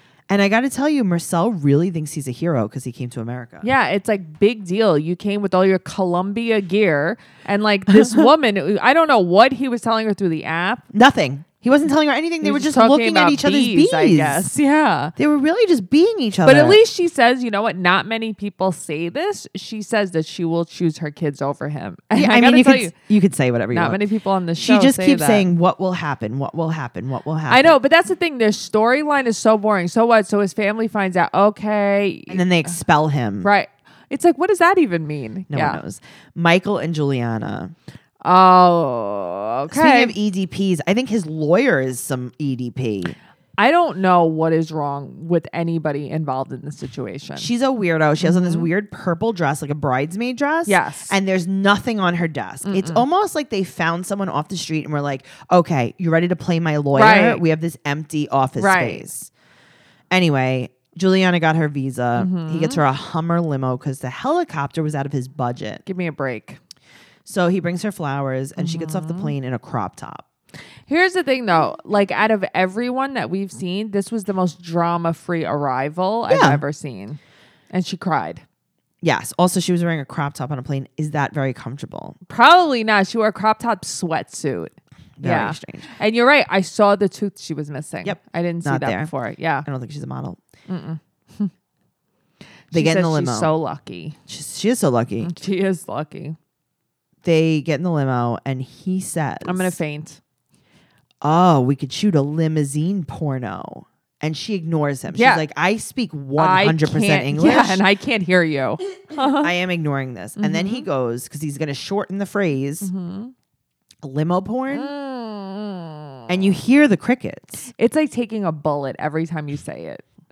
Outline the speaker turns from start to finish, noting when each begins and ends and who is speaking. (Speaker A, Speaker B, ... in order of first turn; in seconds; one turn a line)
Speaker A: 0.3-3.7
Speaker B: 3.6-10.8
Speaker A: 7.9-8.2
Speaker A: 10.9-14.5
Speaker B: 12.4-15.1
Speaker A: 15.2-16.8
Speaker B: 16.4-22.9
Speaker A: 22.1-24.0
Speaker B: 23.7-25.5
Speaker A: 24.6-27.8
Speaker B: 27.5-32.7
Speaker A: 32.3-33.5
Speaker B: 33.4-35.8
Speaker A: 35.5-37.7
Speaker B: 38.2-40.1
Speaker A: 39.7-43.1
Speaker B: 43.6-47.5
Speaker A: 47.4-59.3
Speaker B: 48.2-48.7
Speaker B: 50.7-51.1
Speaker B: 52.6-53.0
Speaker B: 56.9-57.4
Speaker B: 58.6-59.1
Speaker A: 60.1-65.8
Speaker B: 62.1-62.8
Speaker B: 65.8-66.6
Speaker A: 67.2-70.2
Speaker B: 68.6-69.3
Speaker B: 70.9-77.2
Speaker A: 76.3-76.6
Speaker B: 77.7-78.4
Speaker A: 79.0-82.2
Speaker B: 82.3-89.7
Speaker A: 85.2-85.9
Speaker A: 88.0-89.1
Speaker A: 89.6-90.4
Speaker B: 90.7-91.5
Speaker B: 92.7-94.2
Speaker A: 92.7-93.5
Speaker A: 94.3-95.3
Speaker B: 95.2-96.4
Speaker A: 97.2-99.8
Speaker B: 99.4-100.2
Speaker A: 101.2-107.8
Speaker B: 105.1-105.4
Speaker B: 106.4-109.5
Speaker A: 109.2-112.9
Speaker B: 110.4-110.9
Speaker B: 112.8-113.3
Speaker A: 114.0-114.9
Speaker B: 114.7-116.5
Speaker A: 116.3-117.7
Speaker B: 117.7-120.1